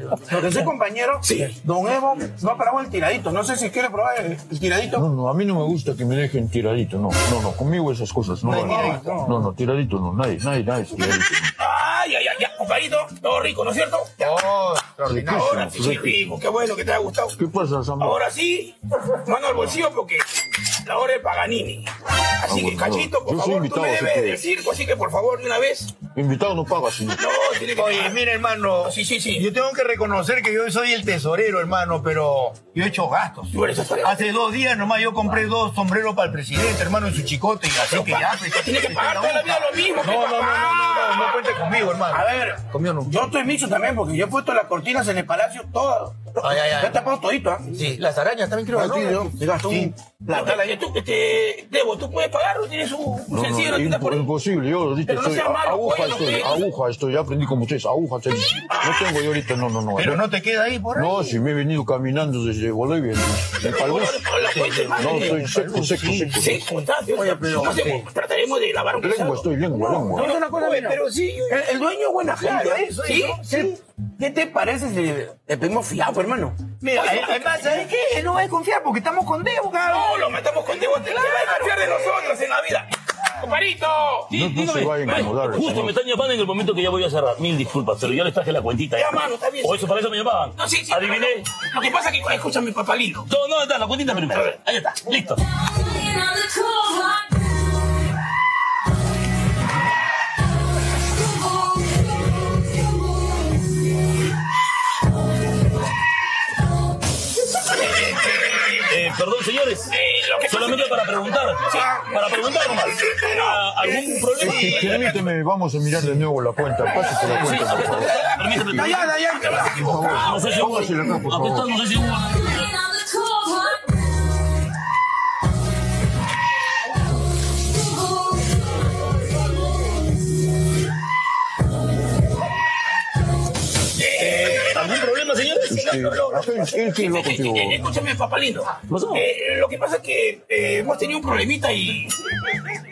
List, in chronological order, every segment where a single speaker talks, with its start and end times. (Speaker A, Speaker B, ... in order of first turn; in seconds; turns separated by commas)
Speaker A: 0.1-5.0, Speaker B: 1.2-1.5, Speaker C: 4.9-11.5, Speaker D: 8.4-9.2, Speaker A: 8.5-9.4, Speaker B: 11.6-14.3, Speaker D: 14.2-15.6, Speaker C: 15.0-16.3, Speaker B: 15.3-17.4, Speaker C: 17.4-18.2, Speaker B: 18.0-26.0, Speaker C: 22.5-24.4, Speaker C: 26.1-27.2, Speaker B: 27.1-28.2, Speaker D: 27.7-43.1, Speaker B: 28.8-29.5, Speaker B: 33.5-34.2, Speaker B: 37.8-41.4, Speaker A: 42.1-50.8, Speaker D: 46.4-47.0, Speaker D: 47.7-49.9, Speaker B: 50.3-54.3, Speaker C: 53.3-60.3, Speaker B: 55.0-56.6, Speaker B: 58.7-59.1, Speaker D: 60.0-61.4, Speaker C: 60.9-64.2, Speaker B: 63.6-65.4, Speaker D: 64.4-66.8, Speaker C: 64.9-66.7, Speaker B: 66.4-69.5, Speaker A: 67.0-68.1, Speaker C: 68.9-70.4, Speaker A: 69.7-76.8, Speaker B: 70.2-70.9, Speaker D: 70.2-71.6, Speaker D: 72.3-73.8, Speaker D: 76.8-80.3, Speaker B: 76.9-77.7, Speaker B: 79.9-85.2, Speaker D: 81.0-81.9, Speaker C: 84.3-86.0, Speaker E: 85.0-91.5, Speaker B: 88.9-89.9, Speaker B: 90.6-93.3, Speaker E: 93.3-96.0, Speaker B: 108.0-108.8, Speaker E: 108.8-115.1, Speaker B: 109.9-111.2, Speaker B: 111.7-115.1, Speaker A: 113.0-113.3, Speaker C: 114.3-119.0, Speaker D: 114.7-115.0, Speaker A: 117.2-120.3, Speaker E: 117.3-122.8, Speaker B: 119.5-120.8, Speaker C: 119.6-121.8, Speaker B: 133.9-135.0, Speaker E: 134.1-136.4, Speaker C: 135.7-137.9, Speaker B: 135.8-136.0, Speaker B: 136.7-142.5, Speaker E: 138.8-139.2